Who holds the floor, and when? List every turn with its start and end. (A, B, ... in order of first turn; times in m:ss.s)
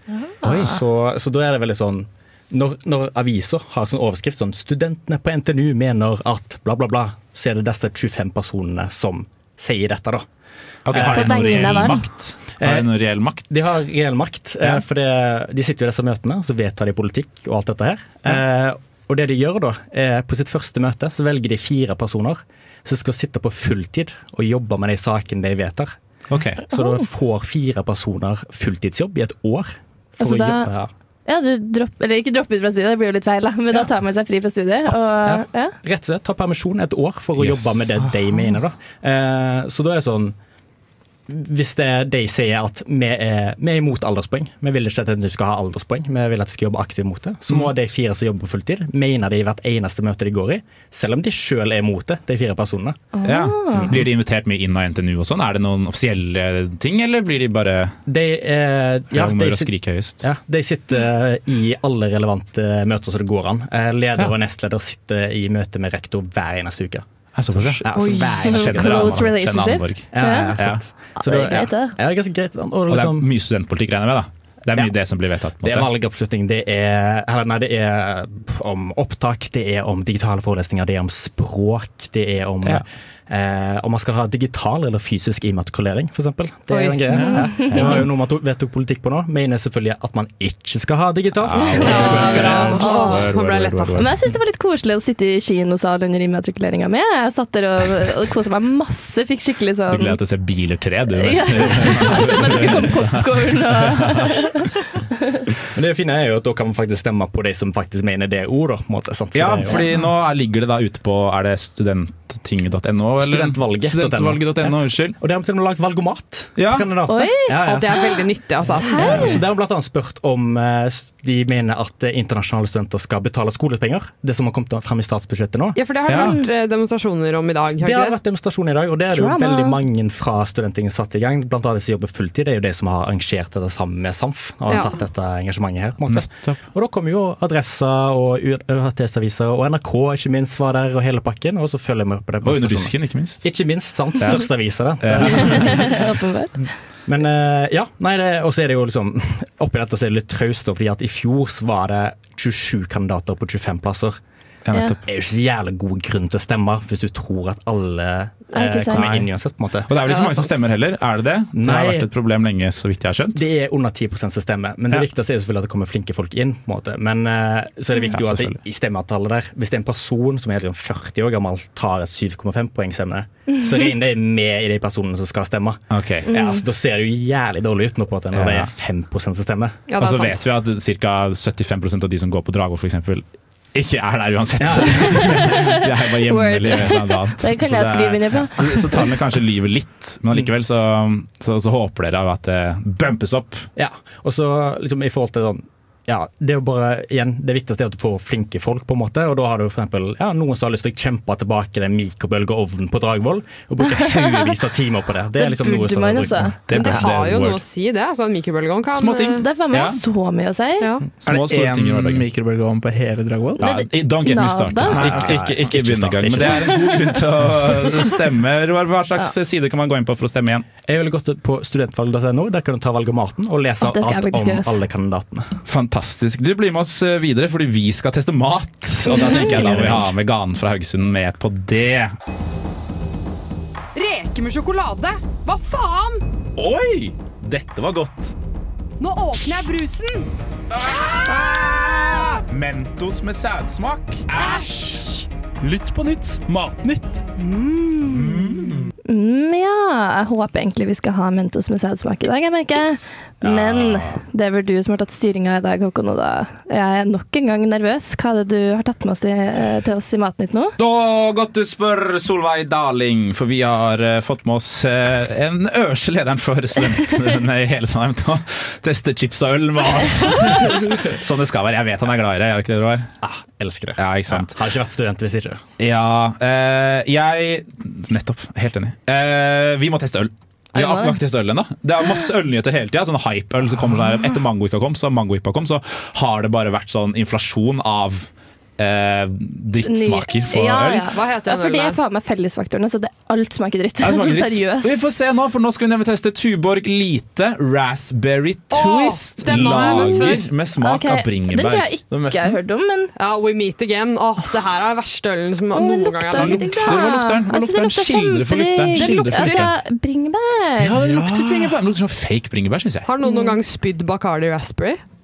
0:00.3-0:00.5 A
0:00.4-0:10.2 B
0:00.4-0:00.8 C
0:10.9-0:13.8 C
0:10.9-0:12.0 B
0:11.0-0:12.0 A
0:12.6-0:12.9 B
0:13.5-0:26.0 B
0:26.3-0:26.6 C
0:26.6-0:30.9 B
0:26.7-0:27.0 A
0:30.2-0:30.7 A
0:31.3-0:35.8 A
0:35.2-0:40.4 B
0:37.4-0:38.1 C
0:41.3-0:53.1 B
0:53.1-0:53.9 A
0:53.2-0:58.0 C
0:53.7-0:54.0 B
0:58.1-1:09.4 B
0:59.1-1:00.2 C
1:07.4-1:10.8 C
1:08.0-1:10.6 A
1:10.1-1:13.3 B
1:11.2-1:12.0 A
1:12.9-1:15.9 C
1:15.6-1:33.1 B
1:26.7-1:27.0 D
1:27.1-1:27.4 E
1:27.3-1:28.0 A
1:27.7-1:28.0 C
1:31.4-1:34.2 C
1:31.7-1:33.2 A
1:31.8-1:34.0 D
1:34.0-1:40.2 A
1:39.9-1:44.7 C
1:41.2-1:45.4 A
1:45.7-1:49.9 B
1:49.3-1:55.2 C
1:53.2-2:05.8 B
1:56.6-1:56.9 C
1:57.1-1:59.4 A
1:57.6-1:59.4 D
2:05.8-2:08.2 D
2:06.1-2:06.4 C
2:07.8-2:26.1 B
2:09.1-2:09.8 A
2:14.7-2:15.0 D
2:16.1-2:16.6 C
2:22.4-2:23.5 C
2:24.2-2:24.5 C
2:25.0-2:26.0 C
2:25.3-2:26.6 A
2:27.1-2:34.2 B
2:34.6-2:35.0 C
2:35.1-2:40.2 B
2:38.5-2:39.1 A
2:38.9-2:39.3 C
2:39.9-2:43.4 C
2:41.6-2:42.1 B
2:43.3-2:59.8 B
2:48.1-2:48.6 C
2:55.9-2:56.3 C
2:56.3-2:56.6 A
2:58.3-2:58.7 C
2:59.9-3:00.4 D
3:00.0-3:13.7 C
3:04.6-3:05.5 B
3:04.9-3:09.1 A
3:13.8-3:27.0 B
3:23.9-3:24.4 A
3:25.4-3:26.6 A
3:26.7-3:27.6 C
3:26.7-3:29.5 D
3:28.9-3:30.0 C
3:29.4-3:30.9 A
3:30.8-3:31.1 D
3:31.2-3:32.3 C
3:31.2-3:33.6 E
3:33.6-3:35.0 A
3:33.6-3:40.7 C
3:34.9-3:37.2 B
3:35.0-3:35.3 E
3:40.9-3:45.6 B
3:43.8-3:44.8 A
3:45.7-3:52.1 C
3:49.1-3:49.7 A
3:49.6-3:50.0 B
3:54.0-3:56.2 D
3:56.6-3:58.3 C
3:59.0-4:00.3 D
4:00.7-4:07.2 C
4:05.6-4:06.8 E
4:07.4-4:08.6 D
4:08.0-4:08.9 C
4:09.1-4:20.8 A
4:13.4-4:14.2 C
4:20.8-4:33.1 C
4:33.2-4:35.6 B
4:34.0-4:34.6 C
4:35.8-4:51.1 C
4:40.7-4:41.2 A
4:49.8-4:55.0 A
4:51.1-4:52.0 D
4:54.0-5:02.0 C
4:58.7-5:00.5 D
4:59.8-5:00.2 A
5:00.8-5:03.1 A
5:02.1-5:02.4 E
5:03.2-5:07.0 D
5:05.7-5:11.2 A
5:06.4-5:09.8 C
5:09.0-5:09.7 D
5:10.8-5:13.1 C
5:13.0-5:15.0 D
5:13.2-5:13.6 A